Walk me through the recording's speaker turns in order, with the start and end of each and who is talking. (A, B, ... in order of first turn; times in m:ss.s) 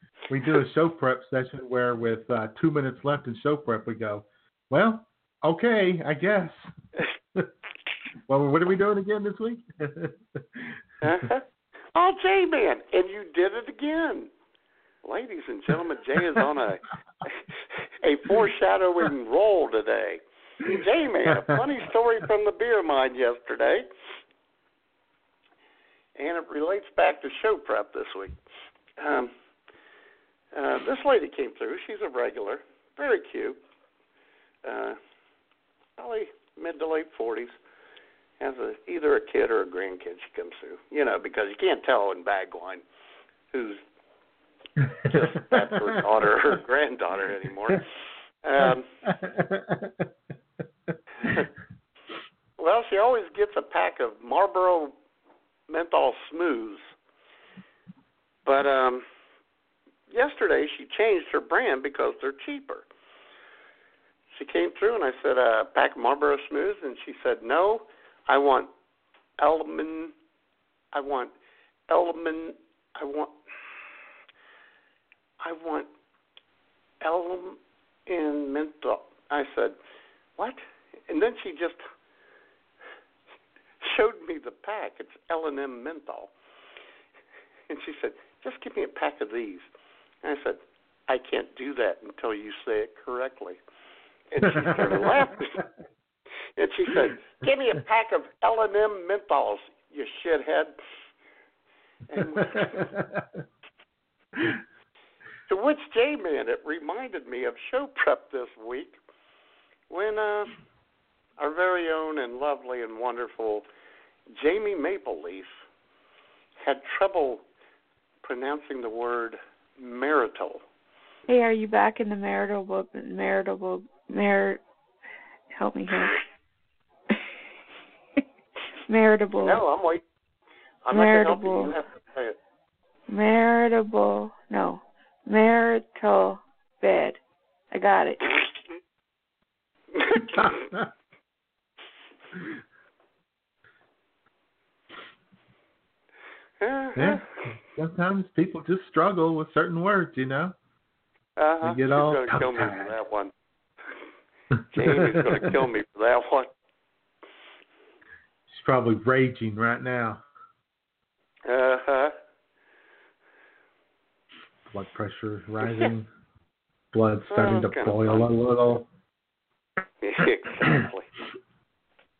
0:00.3-0:06.7 A
0:08.3-0:11.2 A
0:11.0-0:11.4 B
0:11.9-0:14.3 B
0:15.0-0:23.8 B
0:26.2-0:28.4 B
0:29.0-0:29.3 B
0:30.5-0:33.6 B
0:34.6-0:35.0 B
0:36.0-0:37.5 B
0:38.4-0:42.8 B
0:43.5-0:43.8 B
0:44.8-0:46.0 A
0:45.0-0:47.9 B
0:48.4-0:48.9 B
0:49.0-0:50.1 A
0:50.9-0:51.4 A
0:52.6-0:54.9 B
0:55.7-0:56.9 B
0:58.4-0:59.0 B
1:00.1-1:02.8 B
1:04.3-1:08.7 B
1:09.4-1:10.1 B
1:10.9-1:11.3 B
1:11.9-1:13.3 B
1:15.4-1:15.9 B
1:17.0-1:19.8 B
1:20.4-1:21.8 B
1:23.8-1:26.3 B
1:27.7-1:29.6 B
1:30.2-1:33.6 B
1:34.3-1:35.6 B
1:34.4-1:35.6 A
1:36.6-1:40.7 B
1:42.1-1:42.9 B
1:42.2-1:43.4 A
1:45.5-1:49.0 B
1:49.9-1:50.5 B
1:51.4-1:53.6 B
1:54.3-1:55.5 B
1:56.6-1:57.4 B
1:58.2-2:00.6 B
2:01.3-2:04.6 C
2:05.5-2:06.2 C
2:08.9-2:09.6 C
2:09.4-2:10.0 B
2:10.8-2:12.4 B
2:10.9-2:11.8 C
2:13.1-2:17.2 C
2:17.7-2:18.2 C
2:20.0-2:20.4 B
2:20.3-2:20.9 A
2:26.6-2:27.2 B
2:27.0-2:30.5 A
2:31.4-2:33.3 B
2:31.6-2:33.0 A
2:34.5-2:35.6 A
2:34.7-2:36.5 B
2:38.5-2:40.2 A
2:41.4-2:42.1 B
2:44.7-2:46.1 A
2:46.9-2:48.9 A
2:47.3-2:48.3 B
2:50.0-2:51.1 B